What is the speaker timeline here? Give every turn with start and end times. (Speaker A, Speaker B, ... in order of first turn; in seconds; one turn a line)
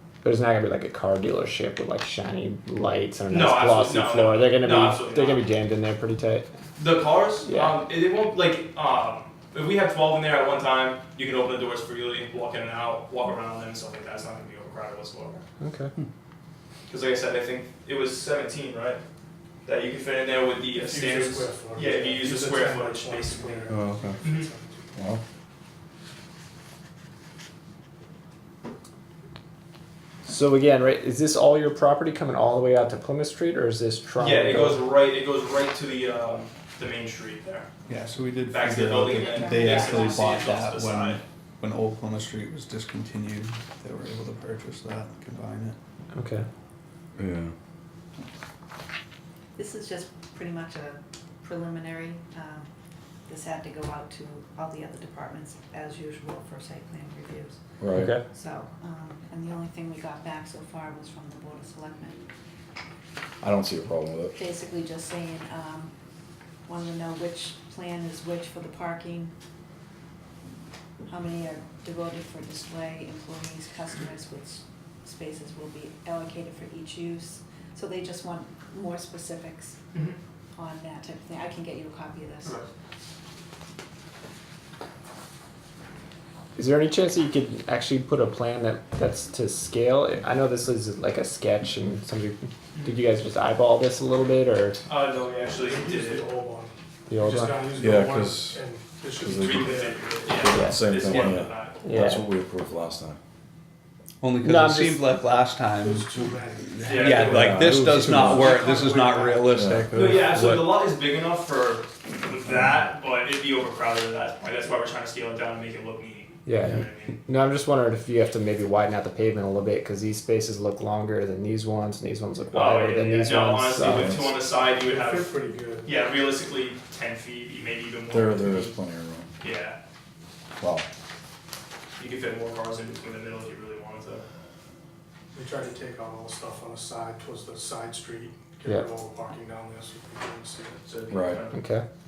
Speaker A: 0.2-6.5
Speaker B: 3.3-5.4
Speaker B: 6.8-15.4
Speaker A: 7.4-7.8
Speaker A: 15.6-15.9
Speaker B: 16.9-19.0
Speaker B: 19.6-23.7
Speaker C: 20.7-25.0
Speaker D: 23.7-24.2
Speaker B: 24.2-24.5
Speaker D: 25.0-25.2
Speaker A: 30.2-34.8
Speaker B: 34.2-37.7
Speaker E: 37.9-45.8
Speaker B: 38.5-41.2
Speaker F: 39.1-40.6
Speaker A: 46.1-46.5
Speaker D: 47.2-47.5
Speaker F: 49.6-52.7
Speaker F: 53.3-57.6
Speaker D: 57.8-58.2
Speaker A: 58.0-58.2
Speaker F: 58.2-62.2
Speaker D: 63.4-64.4
Speaker F: 64.3-65.9
Speaker F: 66.7-69.3
Speaker F: 71.1-79.8
Speaker F: 80.5-82.7
Speaker A: 86.6-94.8
Speaker B: 94.9-96.3
Speaker C: 95.6-100.1
Speaker A: 97.1-97.7
Speaker D: 97.8-98.6
Speaker D: 99.2-103.2
Speaker B: 99.4-101.8
Speaker A: 100.5-100.8
Speaker A: 101.8-102.2
Speaker E: 104.2-106.3
Speaker A: 104.4-105.1
Speaker C: 105.8-109.5
Speaker B: 106.9-107.6
Speaker E: 106.9-110.7
Speaker D: 107.2-108.4
Speaker A: 107.7-108.5
Speaker D: 109.5-110.2
Speaker B: 109.9-117.2
Speaker C: 110.1-110.3
Speaker A: 116.5-124.2
Speaker B: 122.5-125.3
Speaker D: 123.8-124.4
Speaker C: 124.7-126.0
Speaker B: 125.8-128.8
Speaker D: 128.1-129.3
Speaker B: 129.4-129.8
Speaker D: 130.6-130.9
Speaker B: 132.0-134.3
Speaker C: 135.3-140.8
Speaker B: 140.8-141.7
Speaker D: 141.1-141.4
Speaker A: 141.5-141.8